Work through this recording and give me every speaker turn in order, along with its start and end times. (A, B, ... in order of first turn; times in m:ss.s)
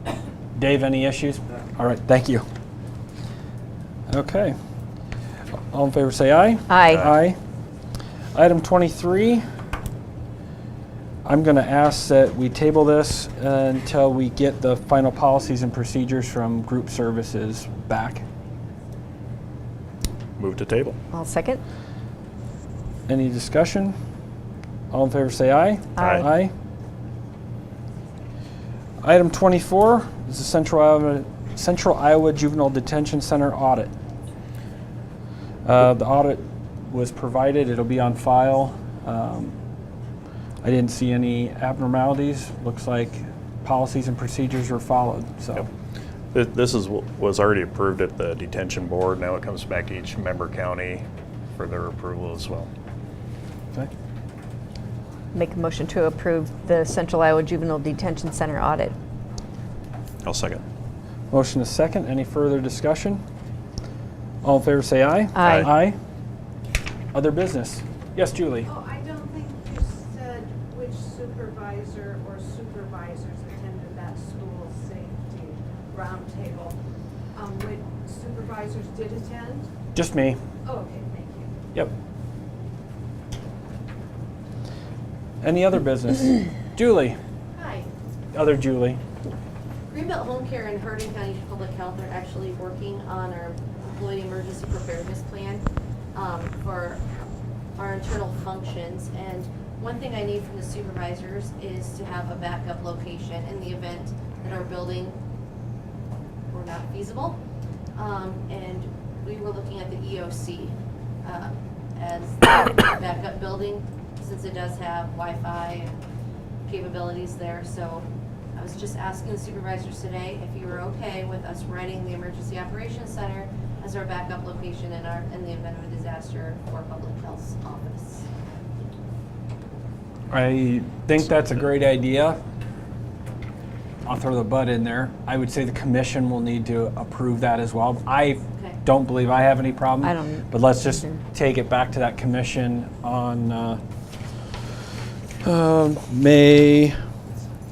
0:00.6-0:02.4 A
0:04.1-0:04.5 A
0:05.6-0:07.4 A
0:06.7-0:07.0 B
0:08.4-0:09.4 A
0:11.2-0:18.2 A
0:20.4-0:21.0 C
0:21.1-0:21.6 B
0:23.1-0:24.0 A
0:24.9-0:26.5 A
0:26.0-0:26.2 C
0:29.0-0:33.9 A
0:35.6-0:39.6 A
0:40.6-0:45.7 A
0:46.3-0:51.1 C
0:51.6-0:52.7 C
0:55.3-0:58.9 B
1:00.2-1:00.6 C
1:01.3-1:03.2 A
1:04.4-1:06.0 A
1:05.4-1:05.6 B
1:07.1-1:08.7 A
1:08.7-1:16.8 D
1:17.3-1:19.7 D
1:20.0-1:20.4 A
1:20.6-1:21.5 D
1:25.4-1:27.2 A
1:27.5-1:27.9 E
1:28.3-1:29.0 A
1:29.9-1:37.0 E
1:37.8-1:45.2 E
1:46.5-1:47.4 E
1:48.0-1:56.0 E
1:56.7-2:08.3 E
2:10.3-2:12.4 A
2:14.0-2:23.8 A
2:20.0-2:21.2 B
2:25.4-2:27.0 A